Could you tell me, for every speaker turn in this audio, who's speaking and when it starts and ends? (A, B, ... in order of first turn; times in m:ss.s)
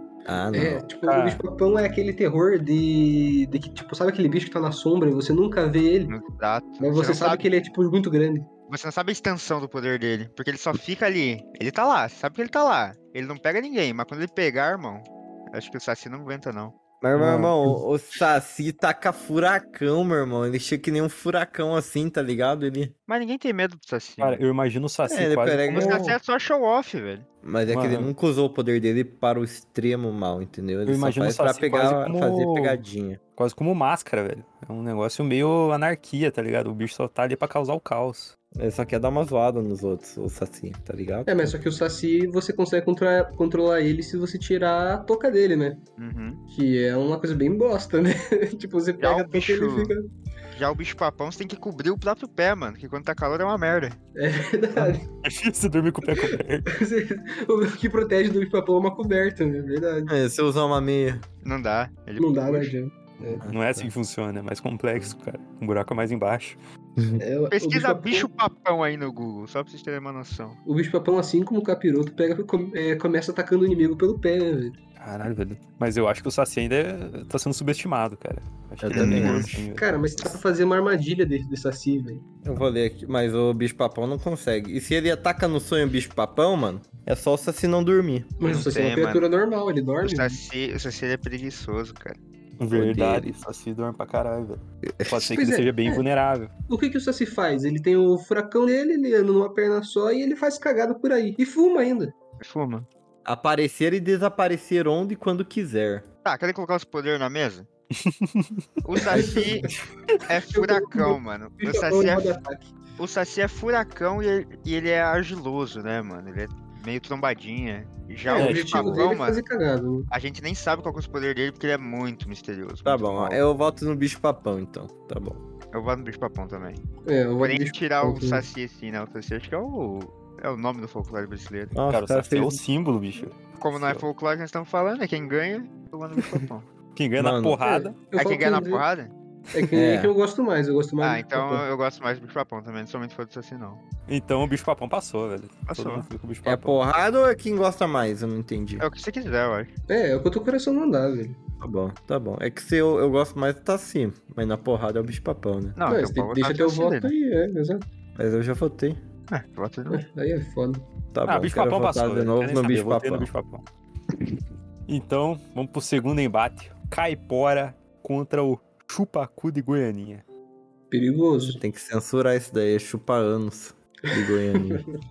0:00.2-0:00.8 A
0:00.5-0:06.1 B
0:01.0-0:01.4 C
0:06.1-0:07.4 D
0:06.8-0:08.5 B
0:08.7-0:16.8 D
0:17.0-0:22.9 A
0:17.2-0:17.8 C
0:23.1-0:24.4 D
0:24.2-0:26.0 C
0:25.1-0:26.1 A
0:25.7-0:27.2 D
0:27.4-0:33.2 A
0:27.7-0:28.1 C
0:30.8-0:32.8 C
0:33.4-0:38.3 C
0:38.5-0:41.5 A
0:41.2-0:45.8 B
0:46.0-0:46.4 D
0:46.5-0:50.1 B
0:49.0-0:49.9 D
0:50.5-0:54.0 D
0:54.1-0:55.0 B
0:55.2-0:56.7 C
0:56.2-1:00.1 B
1:00.1-1:01.2 A
1:01.4-1:02.7 D
1:02.2-1:03.4 B
1:03.3-1:03.9 A
1:03.5-1:06.6 C
1:07.0-1:07.2 A
1:07.2-1:08.3 B
1:07.5-1:10.6 D
1:10.6-1:14.8 B
1:15.0-1:20.0 C
1:18.8-1:19.7 A
1:18.9-1:19.5 D
1:19.7-1:22.2 B
1:22.4-1:28.4 A
1:28.4-1:30.4 B
1:28.4-1:29.3 D
1:30.0-1:32.2 D
1:32.6-1:36.5 C
1:32.7-1:33.3 A
1:35.0-1:35.3 A
1:35.1-1:36.0 B
1:36.7-1:42.1 B
1:42.4-1:42.9 D
1:43.2-1:46.0 A
1:46.2-1:47.7 D
1:47.9-1:48.6 C
1:48.8-1:49.7 D
1:49.0-1:49.7 A
1:49.1-1:49.5 B
1:50.2-1:52.4 D
1:50.5-1:52.7 B
1:53.0-1:59.4 D
1:58.3-2:00.1 B
1:58.3-1:59.1 C
2:00.1-2:03.4 D
2:02.8-2:05.4 A
2:05.7-2:06.8 D
2:07.0-2:08.4 B
2:07.4-2:11.7 D
2:11.7-2:12.6 A
2:11.9-2:14.0 C
2:13.6-2:16.7 D
2:16.9-2:18.0 C
2:17.2-2:17.6 A
2:17.6-2:18.8 B
2:18.1-2:19.1 D
2:19.5-2:21.6 B
2:19.7-2:20.1 A
2:21.0-2:23.8 D
2:24.1-2:26.8 C
2:25.7-2:26.1 D
2:26.4-2:28.9 A
2:28.8-2:29.7 D
2:29.9-2:31.4 B
2:31.6-2:35.8 A
2:35.8-2:37.1 D
2:35.8-2:37.8 B
2:38.2-2:39.0 A
2:39.3-2:40.0 D
2:39.9-2:40.8 B
2:41.1-2:43.3 A
2:41.2-2:43.6 C
2:44.9-2:50.2 C
2:50.9-2:51.6 B
2:51.4-2:54.8 A
2:54.5-2:54.9 B